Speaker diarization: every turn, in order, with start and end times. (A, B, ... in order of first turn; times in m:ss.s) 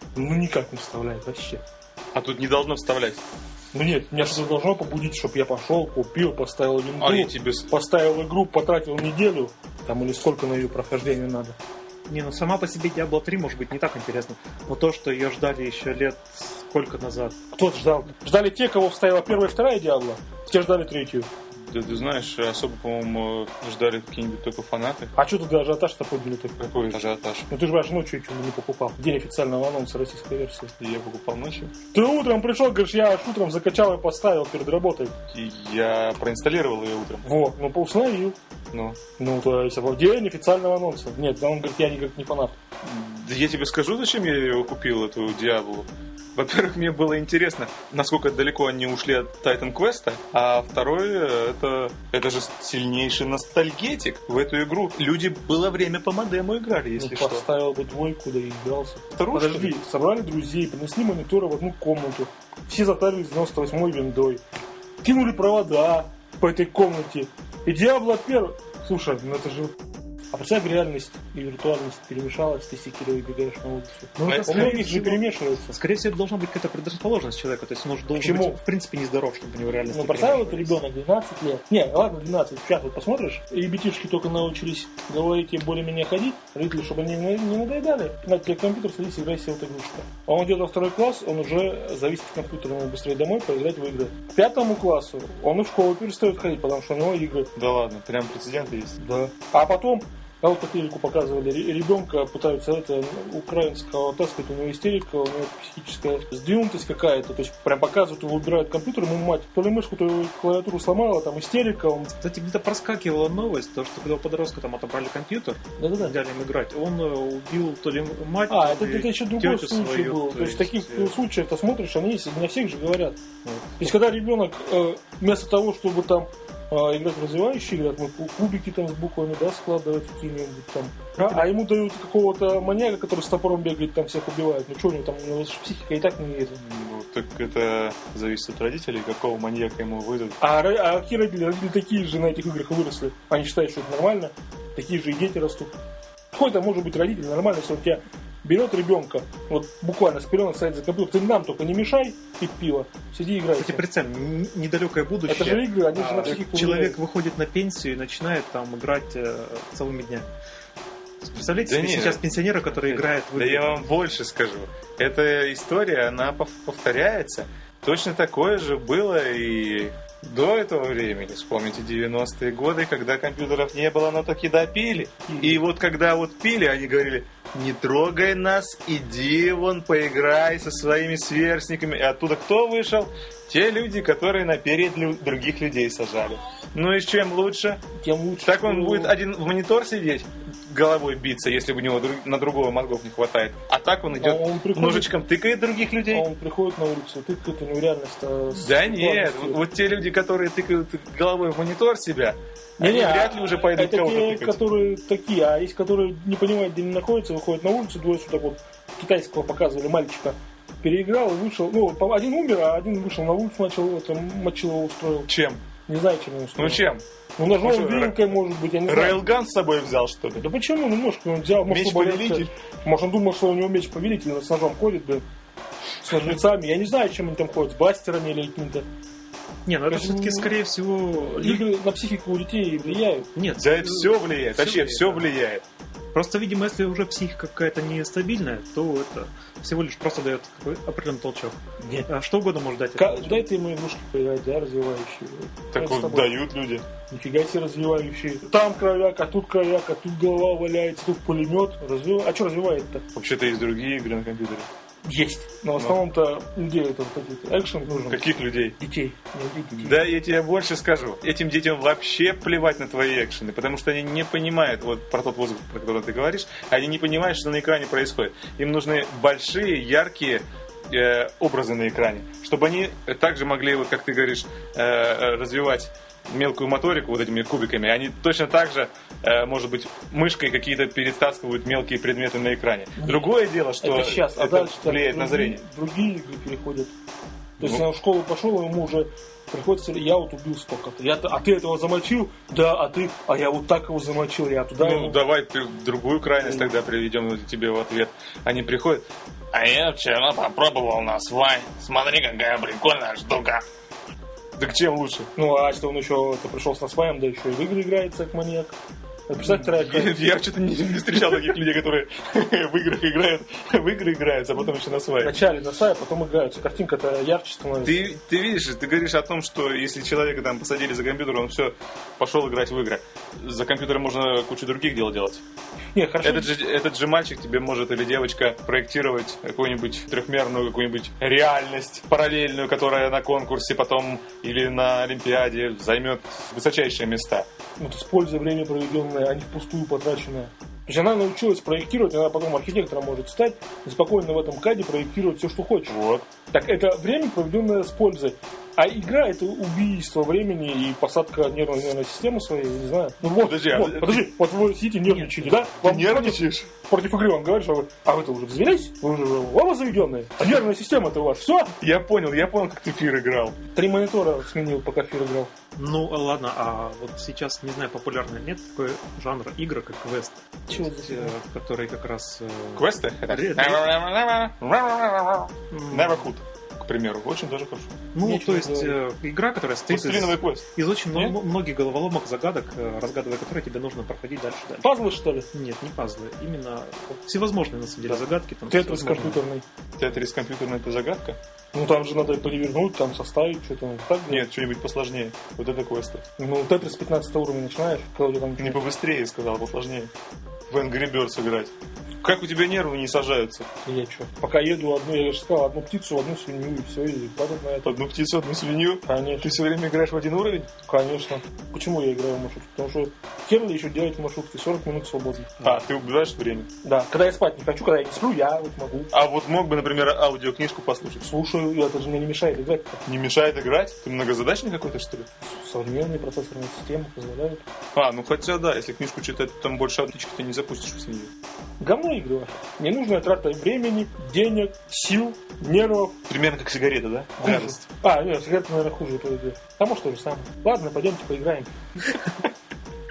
0:00.1-0:01.6 A
0:02.1-0:03.2 B
0:03.7-0:11.6 A
0:07.0-0:07.7 B
0:12.1-0:17.4 C
0:17.5-0:21.3 A
0:21.7-0:25.1 B
0:25.2-0:26.6 A
0:26.6-0:27.5 B
0:27.5-0:30.7 A
0:30.8-0:31.7 B
0:31.9-0:35.1 A
0:35.3-0:37.2 B
0:37.2-0:38.4 A
0:38.7-0:39.0 B
0:39.2-0:42.6 A
0:42.8-0:57.4 B
0:57.0-1:04.4 A
0:59.1-0:59.8 B
1:05.0-1:09.8 A
1:10.3-1:15.7 A
1:14.2-1:20.8 C
1:14.2-1:14.8 B
1:18.2-1:18.6 A
1:19.9-1:37.5 A
1:37.6-1:39.0 B
1:39.0-1:52.1 A
1:52.1-2:01.2 C
1:55.8-1:56.2 A
1:58.5-2:03.2 A
2:03.4-2:03.9 C
2:03.8-2:16.6 A
2:11.2-2:11.5 C
2:16.6-2:20.4 B
2:20.4-2:25.7 A
2:26.3-2:33.8 A
2:33.5-2:40.3 C
2:35.3-2:37.0 A
2:41.2-2:43.9 C
2:41.5-3:07.8 B
2:55.3-2:55.6 A
3:08.0-3:09.2 A
3:08.4-3:16.2 B
3:14.1-3:15.2 A
3:16.1-3:19.7 A
3:18.5-3:24.6 B
3:22.8-3:35.3 A
3:35.3-3:35.6 B
3:35.9-3:39.3 A
3:36.6-3:37.0 B
3:37.6-3:38.3 B
3:38.8-3:40.4 B
3:40.4-3:45.2 A
3:41.6-3:42.5 B
3:46.0-3:48.8 A
3:49.6-3:51.6 C
3:49.9-3:50.5 A
3:51.4-3:53.3 A
3:52.7-3:55.3 C
3:53.6-3:55.6 B
3:56.1-4:03.4 C
4:01.8-4:02.1 A
4:03.0-4:06.4 A
4:05.7-4:06.8 B
4:07.1-4:13.0 A
4:13.1-4:14.7 B
4:15.0-4:20.0 A
4:18.0-4:18.8 B
4:19.8-4:45.6 B
4:43.0-4:46.9 A
4:47.6-4:55.2 A
4:54.8-5:03.6 B
4:56.4-4:56.8 A
5:04.6-5:05.3 B
5:05.4-5:08.8 A
5:09.3-5:10.4 A
5:09.4-5:15.4 B
5:15.2-5:18.2 A
5:17.8-5:25.4 B
5:25.9-5:26.6 A
5:26.2-5:37.5 B
5:37.8-5:45.9 A
5:45.9-5:46.3 B
5:46.5-6:01.8 A
5:53.4-5:54.3 B
5:55.8-5:56.7 B
6:01.8-6:03.6 B
6:03.7-6:05.5 A
6:05.7-6:13.9 C
6:10.7-6:11.3 A
6:12.8-6:18.0 B
6:15.7-6:16.3 C
6:18.1-6:24.9 C
6:18.2-6:19.0 A
6:19.9-6:21.4 B
6:24.8-6:25.5 A
6:25.5-6:29.4 C
6:28.7-6:29.6 A
6:30.0-6:31.4 B
6:31.7-6:34.5 A
6:34.3-6:36.2 B
6:36.4-6:38.8 A
6:38.6-6:40.1 B
6:40.7-6:43.7 B
6:43.8-6:48.0 A
6:47.8-6:50.7 B
6:49.0-6:49.6 A
6:50.9-6:55.8 A
6:55.6-6:56.7 B
6:56.8-6:59.1 A
6:59.1-7:01.3 B
7:01.2-7:03.0 A
7:03.0-7:05.3 B
7:05.4-7:07.6 A
7:07.9-7:11.3 B
7:11.8-7:16.2 A
7:16.3-7:17.9 B
7:17.4-7:21.7 A